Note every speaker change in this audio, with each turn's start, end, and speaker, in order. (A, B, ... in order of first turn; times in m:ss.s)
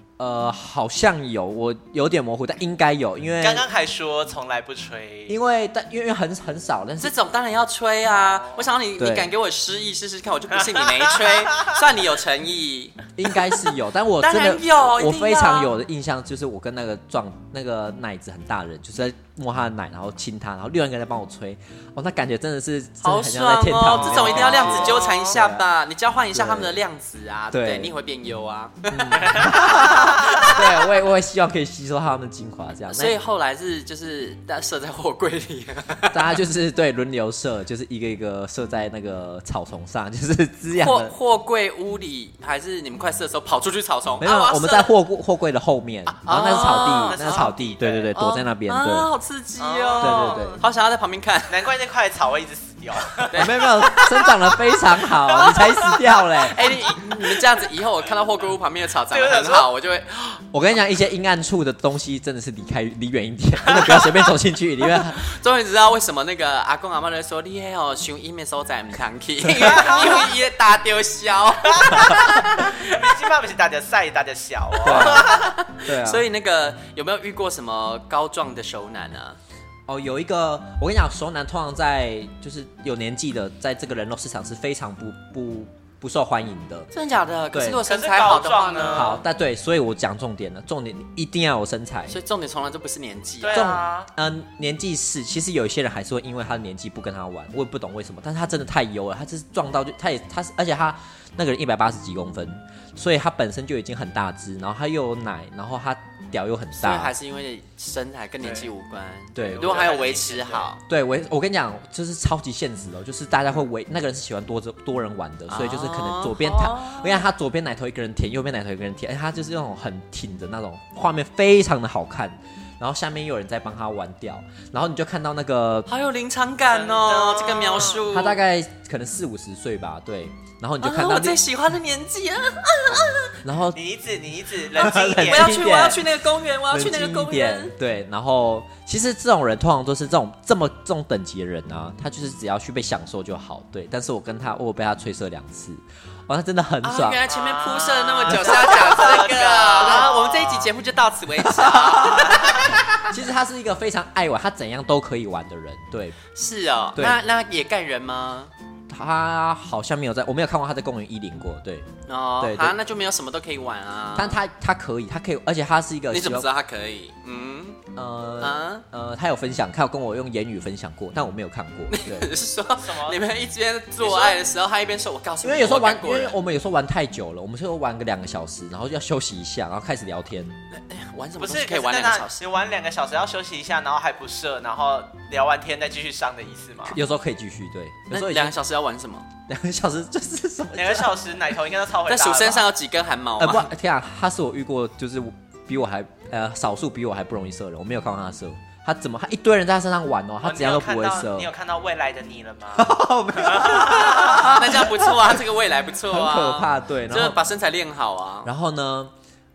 0:00.2-0:03.6 A
0:03.4-0:05.4 B
0:05.3-0:07.1 A
0:07.0-0:13.0 C
0:08.2-0:08.6 B
0:09.0-0:09.3 A
0:10.7-0:11.6 B
0:13.2-0:25.6 A
0:14.2-0:15.7 C
0:23.0-0:30.6 C
0:23.9-0:25.4 B
0:26.3-0:26.8 A
0:27.5-0:27.9 A
0:28.9-0:33.2 A
0:32.9-0:36.3 C
0:36.1-0:41.1 A
0:40.7-0:44.9 C
0:44.2-0:49.1 A
0:46.1-0:47.5 C
0:46.8-0:48.1 B
0:48.1-0:51.7 C
0:49.6-0:50.6 B
0:50.0-0:50.6 A
0:51.5-0:53.5 B
0:53.2-0:54.5 C
0:53.3-0:56.7 A
0:55.3-0:56.0 B
0:56.5-1:00.4 C
0:59.1-0:59.7 B
1:00.5-1:05.3 A
1:03.7-1:04.2 B
1:05.1-1:12.7 C
1:09.5-1:09.9 A
1:09.8-1:10.1 B
1:11.8-1:15.4 B
1:14.8-1:16.2 A
1:14.8-1:19.4 C
1:19.9-1:26.9 A
1:26.9-1:29.2 C
1:27.5-1:27.8 A
1:27.8-1:29.1 B
1:28.9-1:32.2 A
1:32.1-1:33.8 C
1:33.4-1:34.1 B
1:33.5-1:47.1 A
1:46.7-1:50.8 C
1:48.4-1:48.7 B
1:49.3-1:50.0 A
1:49.5-1:50.7 B
1:50.8-2:05.9 A
1:55.5-1:57.2 C
2:05.9-2:08.4 C
2:06.7-2:08.0 B
2:08.0-2:11.4 A
2:10.8-2:13.4 C
2:13.4-2:13.8 A
2:13.7-2:15.5 B
2:14.8-2:16.1 A
2:14.8-2:17.7 C
2:16.7-2:27.2 A
2:26.8-2:32.7 C
2:27.3-2:30.7 B
2:28.3-2:28.7 A
2:31.5-2:36.2 A
2:32.4-2:32.6 B
2:36.3-2:38.5 C
2:38.9-2:42.8 A
2:42.1-2:44.4 C
2:44.1-2:46.5 A
2:46.1-2:47.8 C
2:47.9-2:52.3 A
2:48.4-2:48.8 C
2:51.9-2:56.4 C
2:52.8-2:53.2 B
2:54.0-2:54.4 B
2:55.4-3:00.6 A
3:00.7-3:02.4 C
3:01.4-3:07.0 B
3:06.8-3:08.6 A
3:08.1-3:09.3 C
3:09.5-3:11.2 A
3:10.7-3:12.7 B
3:12.1-3:13.7 C
3:13.4-3:21.5 A
3:20.4-3:24.5 B
3:22.7-3:25.4 A
3:24.2-3:28.5 C
3:26.1-3:27.4 A
3:28.4-3:29.1 A